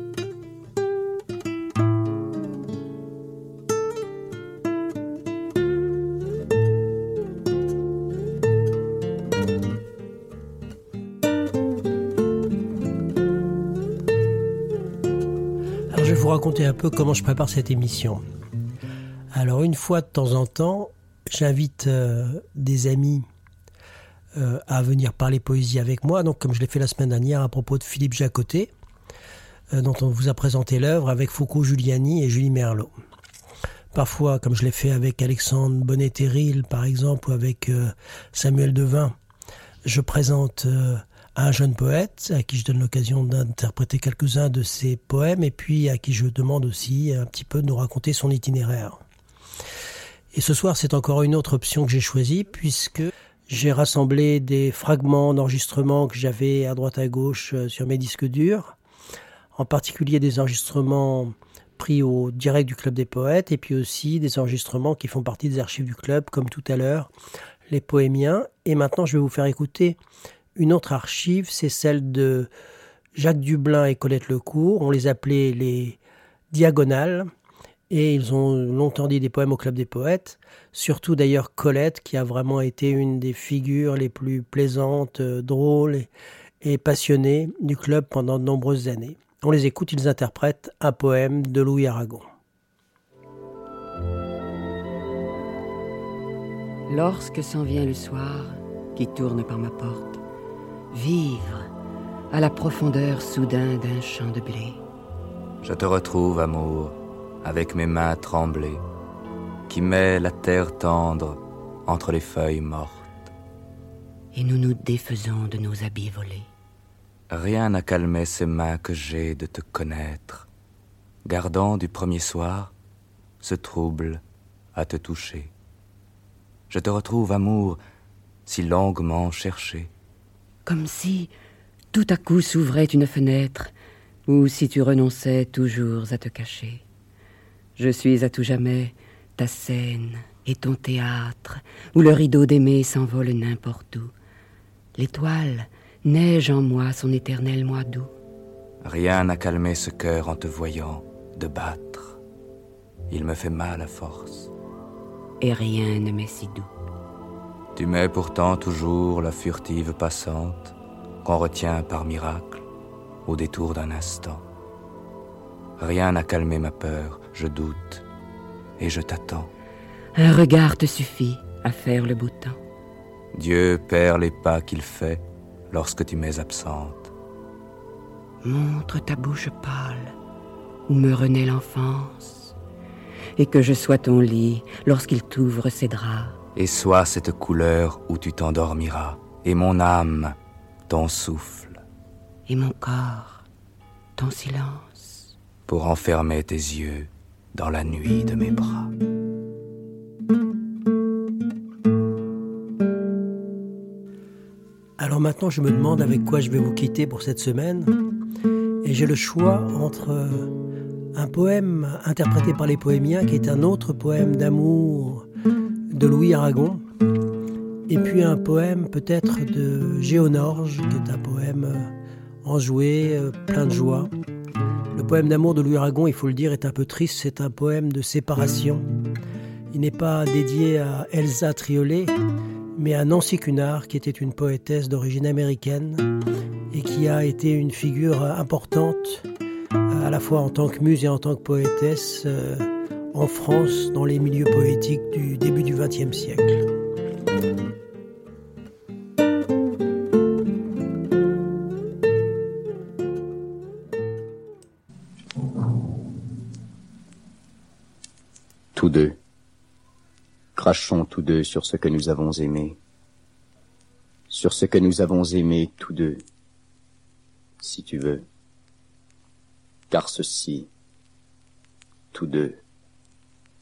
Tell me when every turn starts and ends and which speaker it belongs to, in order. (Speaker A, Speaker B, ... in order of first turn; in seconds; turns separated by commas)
Speaker A: 15.9-18.2, Speaker A: 19.3-23.2, Speaker A: 24.3-28.7, Speaker A: 29.7-32.9, Speaker A: 33.9-39.1, Speaker A: 39.8-49.0, Speaker A: 50.3-58.7, Speaker A: 59.5-67.1, Speaker A: 67.7-70.0, Speaker A: 70.5-72.5, Speaker A: 73.2-76.0, Speaker A: 76.5-77.3, Speaker A: 77.9-86.1, Speaker A: 86.6-92.3, Speaker B: 96.9-100.2, Speaker B: 100.9-101.7, Speaker B: 102.3-104.8, Speaker C: 105.6-108.8, Speaker C: 109.7-113.2, Speaker B: 114.3-116.5, Speaker C: 117.3-120.5, Speaker C: 121.2-122.7, Speaker C: 123.4-124.2, Speaker C: 124.7-125.5, Speaker C: 126.7-127.8, Speaker C: 128.4-129.9, Speaker B: 130.6-131.3, Speaker B: 131.9-133.7, Speaker B: 134.3-136.8, Speaker B: 137.8-144.1, Speaker B: 144.9-148.1, Speaker C: 148.8-152.2, Speaker C: 153.1-154.5, Speaker B: 155.4-156.7, Speaker C: 157.7-162.6, Speaker C: 163.2-164.4, Speaker C: 165.8-168.0, Speaker C: 168.8-169.5, Speaker B: 170.1-172.6, Speaker C: 173.3-177.1, Speaker B: 178.4-180.1, Speaker B: 180.9-182.5, Speaker B: 183.4-186.4, Speaker C: 186.5-190.3, Speaker C: 190.9-191.8, Speaker B: 192.5-193.4, Speaker B: 194.2-195.3, Speaker C: 195.7-198.9, Speaker A: 205.0-207.9, Speaker A: 208.8-210.5, Speaker A: 211.1-215.2, Speaker A: 215.9-216.8, Speaker A: 217.9-221.9, Speaker A: 222.4-224.1, Speaker A: 224.9-228.8, Speaker A: 229.7-232.1, Speaker A: 232.8-236.1, Speaker A: 236.7-239.2, Speaker A: 239.9-246.6, Speaker D: 258.7-259.2, Speaker D: 260.6-262.8, Speaker D: 264.3-266.2, Speaker D: 267.6-268.2, Speaker D: 269.9-270.7, Speaker D: 272.1-272.6